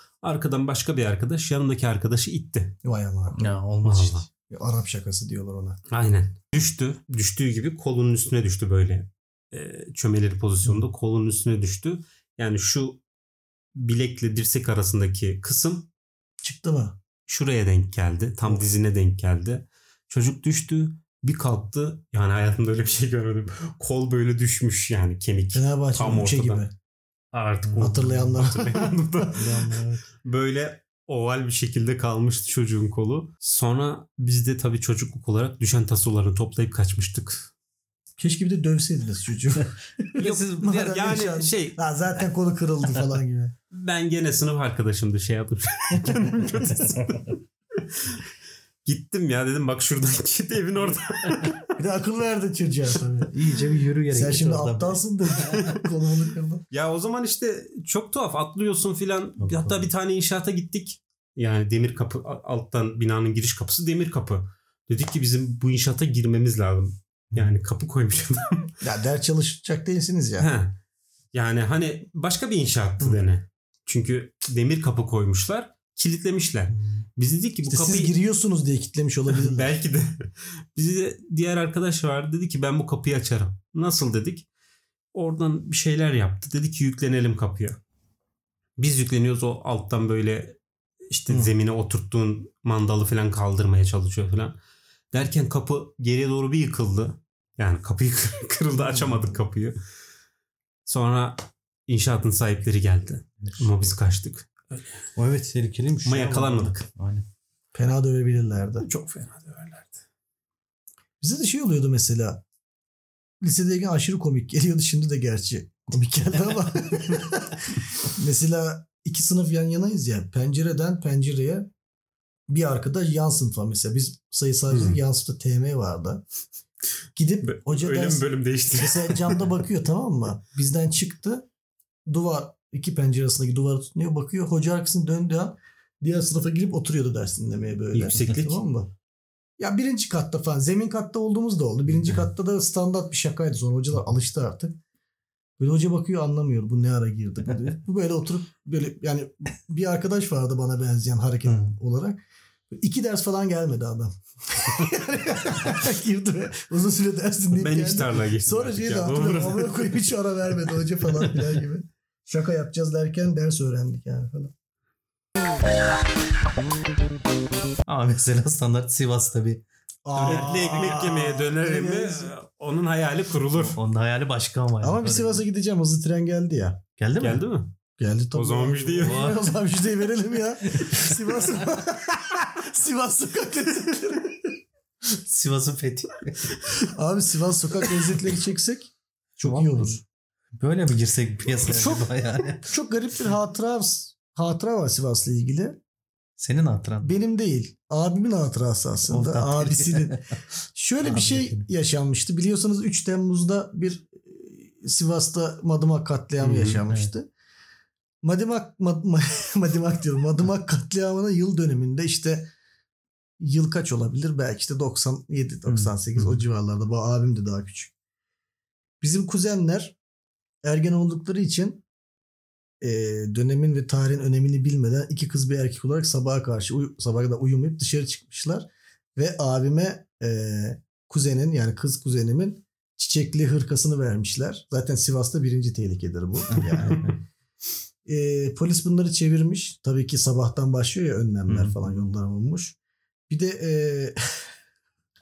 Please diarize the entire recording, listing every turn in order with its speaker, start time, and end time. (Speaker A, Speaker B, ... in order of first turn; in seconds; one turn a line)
Speaker A: 0.2-2.8
Speaker B: 2.8-3.5
Speaker C: 3.4-4.3
Speaker A: 3.8-4.2
Speaker B: 4.5-5.8
Speaker A: 5.9-13.0
Speaker A: 13.8-15.9
Speaker B: 16.4-17.0
Speaker A: 17.3-26.6
Speaker B: 25.5-26.7
Speaker A: 27.3-37.5
Speaker B: 27.7-29.5
Speaker C: 29.3-30.0
Speaker B: 38.2-43.5
Speaker A: 40.2-41.8
Speaker C: 40.2-40.6
Speaker A: 43.7-47.2
Speaker B: 46.0-46.7
Speaker A: 48.0-48.2
Speaker A: 48.9-51.7
Speaker B: 51.8-53.3
Speaker C: 53.3-55.0
Speaker B: 54.1-56.6
Speaker A: 55.5-55.7
Speaker A: 56.7-68.7
Speaker C: 59.4-59.9
Speaker B: 68.8-70.5
Speaker A: 70.4-70.7
Speaker A: 71.3-78.1
Speaker B: 77.7-79.7
Speaker A: 79.3-84.5
Speaker A: 85.1-87.8
Speaker A: 88.8-90.6
Speaker A: 91.1-94.6
Speaker A: 95.1-99.8
Speaker A: 100.9-104.9
Speaker C: 105.2-107.2
Speaker A: 106.0-106.8
Speaker B: 107.7-108.9
Speaker A: 108.9-109.9
Speaker B: 111.2-112.4
Speaker B: 113.4-121.7
Speaker B: 122.5-126.2
Speaker A: 124.7-125.0
Speaker B: 127.2-131.5
Speaker A: 127.4-129.4
Speaker B: 132.1-138.9
Speaker A: 137.9-138.6
Speaker B: 139.6-144.8
Speaker B: 145.6-152.2
Speaker C: 151.5-151.7
Speaker B: 152.7-164.5
Speaker A: 157.6-160.0
Speaker C: 167.9-171.0
Speaker B: 170.1-172.3
Speaker A: 170.2-173.8
Speaker C: 173.5-175.4
Speaker B: 174.8-176.8
Speaker C: 177.0-177.4
Speaker A: 177.2-177.8
Speaker B: 178.0-184.5
Speaker A: 178.3-179.4
Speaker C: 179.0-179.4
Speaker C: 180.7-181.4
Speaker C: 185.2-186.5
Speaker B: 186.9-190.0
Speaker C: 189.4-190.0
Speaker C: 190.6-192.7
Speaker B: 191.7-192.1
Speaker B: 192.6-195.8
Speaker C: 196.4-197.1
Speaker B: 197.0-207.3
Speaker C: 199.1-200.3
Speaker C: 201.0-201.7
Speaker C: 206.4-207.1
Speaker B: 208.2-212.5
Speaker B: 213.4-217.9
Speaker C: 215.7-216.4
Speaker B: 219.0-220.0
Speaker B: 220.6-221.8
Speaker B: 222.8-237.1
Speaker C: 236.5-237.2
Speaker B: 238.1-242.8
Speaker C: 241.5-241.8
Speaker B: 243.3-244.5